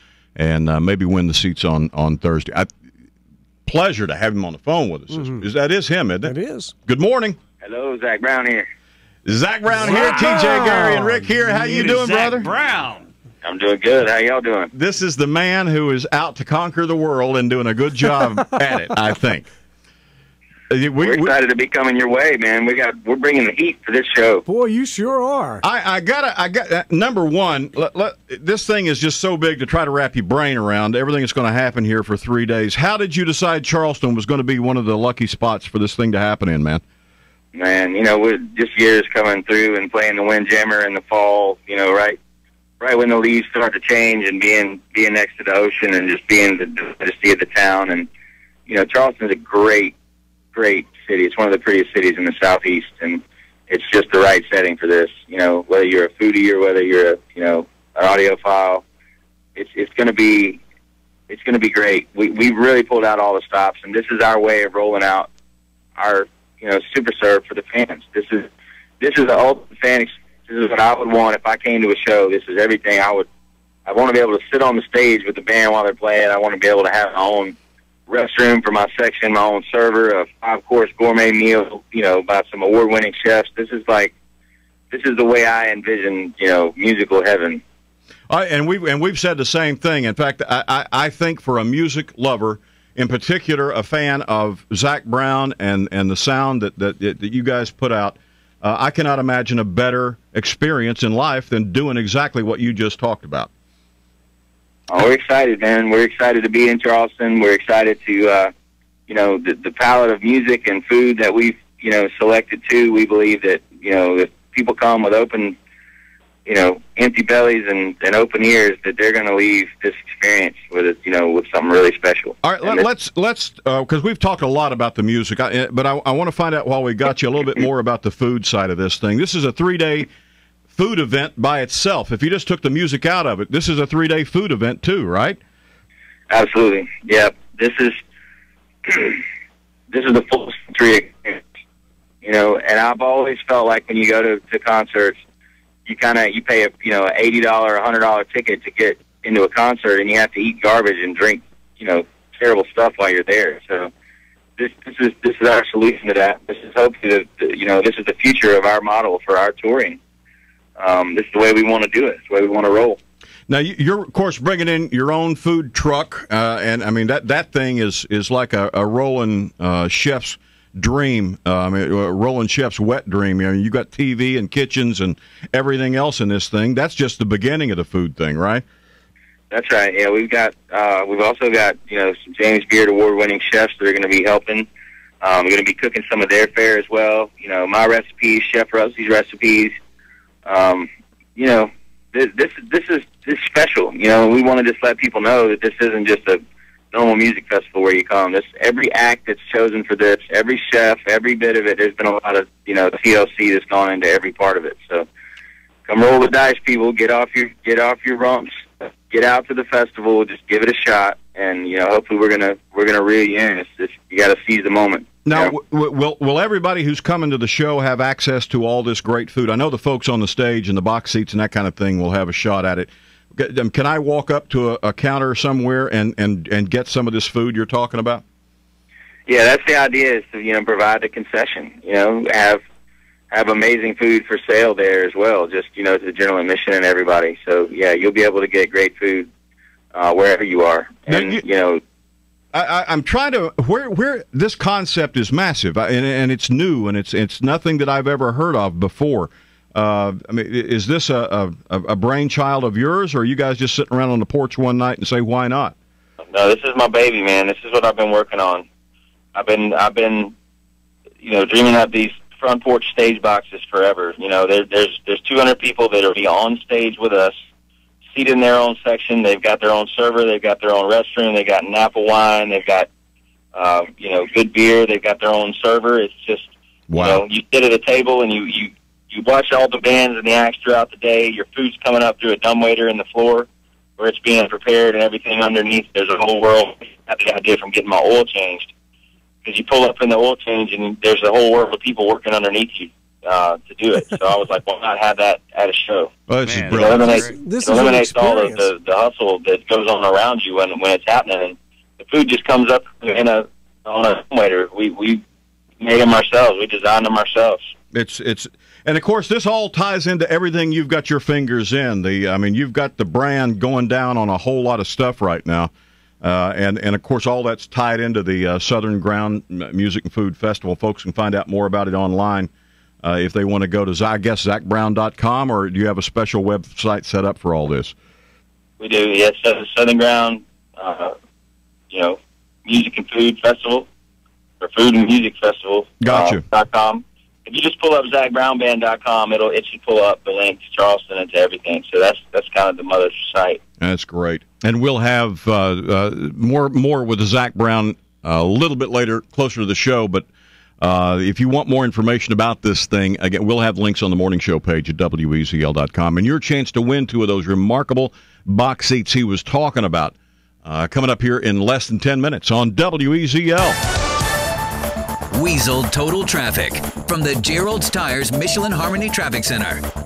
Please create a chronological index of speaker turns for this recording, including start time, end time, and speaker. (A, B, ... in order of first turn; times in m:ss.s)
0:00.4-0:02.7 A
0:03.7-0:07.4 A
0:06.2-0:06.7 B
0:07.6-0:08.6 C
0:09.2-0:12.5 A
0:09.8-0:11.1 B
0:11.6-0:13.1 D
0:13.4-0:14.7 C
0:14.7-0:19.5 A
0:20.7-0:21.3 A
0:21.0-0:24.4 C
0:24.5-0:25.6 B
0:25.6-0:36.8 A
0:37.5-0:42.2 C
0:42.8-0:48.1 C
0:48.7-0:49.9 C
0:50.5-0:58.8 C
0:59.6-1:00.6 C
1:01.3-1:05.3 C
1:06.0-1:08.5 C
1:09.0-1:13.3 C
1:13.9-1:17.6 C
1:18.1-1:24.1 C
1:24.9-1:27.6 C
1:28.3-1:43.5 A
1:44.9-1:48.5 C
1:49.1-1:55.6 C
1:56.5-2:02.8 C
2:02.4-2:10.1 A
2:10.7-2:15.4 A
2:16.3-2:18.0 C
2:18.8-2:19.2 C
2:19.9-2:21.4 C
2:22.2-2:25.2 C
2:25.9-2:33.9 C
2:34.6-2:40.0 C
2:40.8-2:43.0 C
2:43.5-2:58.6 A
2:59.5-3:04.7 C
3:05.2-3:09.7 C
3:10.5-3:16.4 C
3:16.9-3:25.1 C
3:25.9-3:35.5 C
3:35.2-3:48.2 A
3:49.3-3:52.6 C
3:53.3-3:59.3 C
3:59.9-4:01.8 C
4:01.1-4:01.4 A
4:02.5-4:15.8 A
4:16.3-4:18.7 C
4:19.4-4:20.3 C
4:21.2-4:27.4 C
4:28.1-4:32.9 C
4:33.5-4:43.5 C
4:36.9-4:37.2 A
4:44.0-4:48.7 C
4:49.4-4:56.1 C
4:56.3-4:57.3 A
4:56.5-4:57.4 D
4:56.7-5:05.2 C
4:57.0-4:58.7 B
5:05.8-5:07.6 C
5:07.9-5:15.7 A
5:16.2-5:22.5 A
5:23.0-5:28.0 A
5:28.8-5:31.1 C
5:31.9-5:33.9 C
5:34.6-5:43.6 C
5:36.0-5:36.4 A
5:43.8-5:50.3 A
5:50.8-6:03.8 A
6:05.4-6:09.8 E